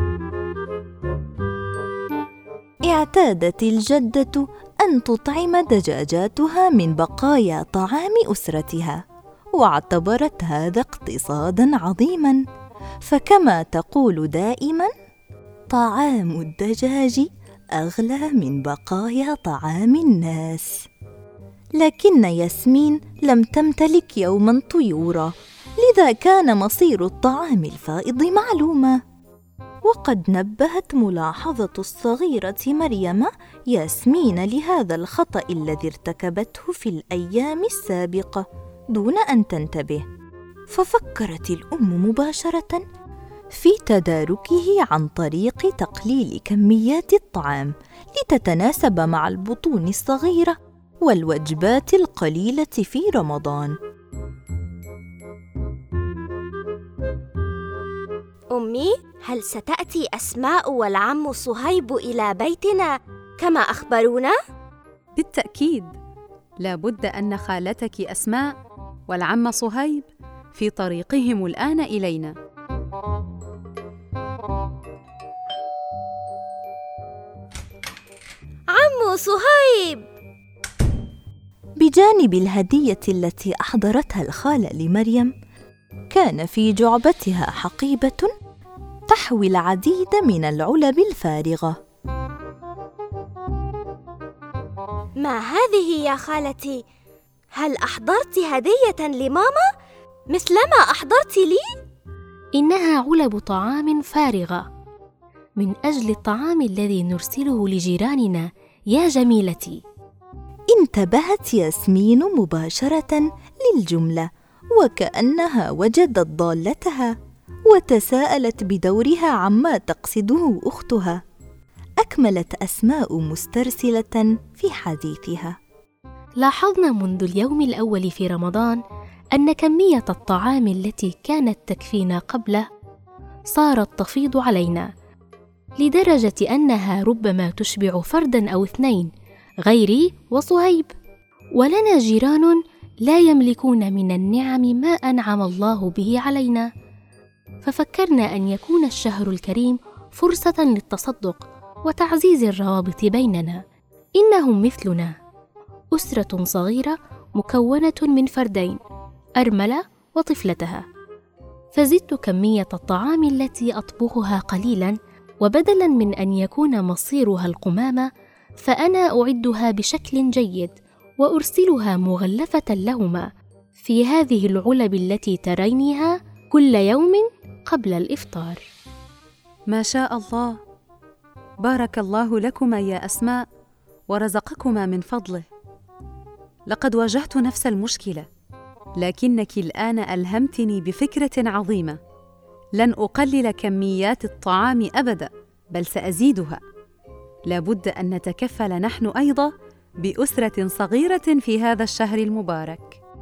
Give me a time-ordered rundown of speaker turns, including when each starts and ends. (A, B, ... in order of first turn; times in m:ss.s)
0:02.8-0:09.0 A
0:09.5-0:12.4 A
0:13.0-0:14.9 A
0:15.7-0:20.8 A
0:21.8-0:29.0 A
0:29.8-0:40.0 A
0:40.7-0:42.8 A
0:43.5-0:53.7 A
0:58.5-1:04.3 B
1:05.2-1:05.9 C
1:06.6-1:08.6 C
1:09.1-1:12.3 C
1:18.7-1:20.0 B
1:21.8-1:25.3 A
1:26.1-1:28.3 A
1:29.1-1:31.8 A
1:35.2-1:36.8 B
1:37.5-1:39.7 B
1:40.3-1:41.6 B
1:42.5-1:44.6 D
1:45.6-1:49.8 D
1:50.7-1:57.1 A
1:57.7-2:01.2 A
2:02.0-2:05.6 A
2:06.4-2:08.8 D
2:09.3-2:12.6 D
2:13.5-2:14.9 D
2:15.8-2:19.1 D
2:19.6-2:20.9 D
2:21.6-2:26.7 D
2:27.6-2:33.6 D
2:34.2-2:35.1 D
2:35.9-2:38.8 D
2:39.4-2:40.8 D
2:41.7-2:48.0 D
2:48.6-2:53.3 D
2:53.8-2:58.6 D
2:59.7-3:00.6 C
3:01.6-3:03.4 C
3:04.1-3:05.4 C
3:06.7-3:08.2 C
3:09.0-3:12.0 C
3:12.8-3:16.6 C
3:17.5-3:19.5 C
3:20.0-3:23.0 C